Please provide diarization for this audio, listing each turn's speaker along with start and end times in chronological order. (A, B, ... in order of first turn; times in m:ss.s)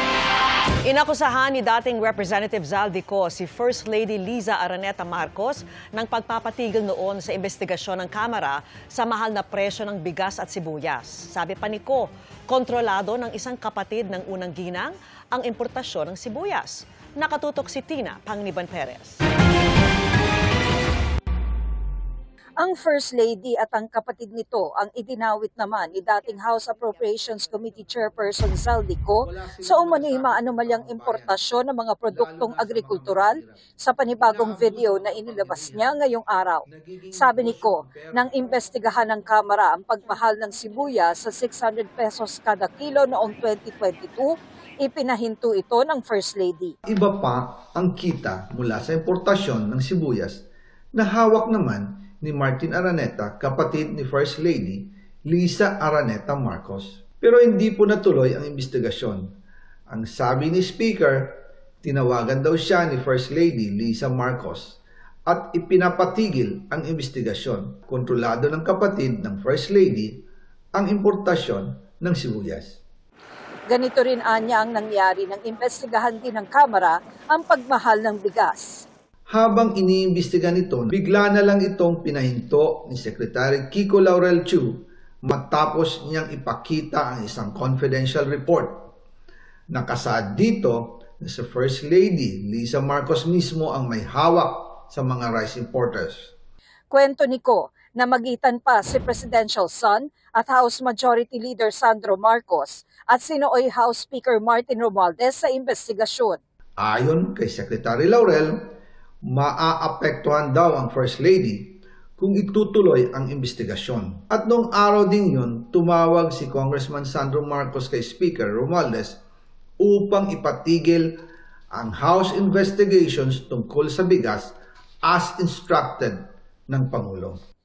0:00.8-0:19.2 A
0:22.6-0:46.7 B
0:29.4-0:30.3 C
0:32.3-0:33.3 C
0:34.7-0:35.6 C
0:36.7-0:38.2 C
0:46.9-0:50.4 C
0:51.0-0:59.3 C
0:59.9-1:12.8 C
1:13.7-1:18.8 B
1:19.3-1:28.9 C
1:29.7-1:36.3 C
1:36.9-1:46.4 B
1:46.8-1:48.6 C
1:49.2-1:59.2 C
1:59.8-2:01.1 C
2:01.7-2:04.5 C
2:05.0-2:07.4 C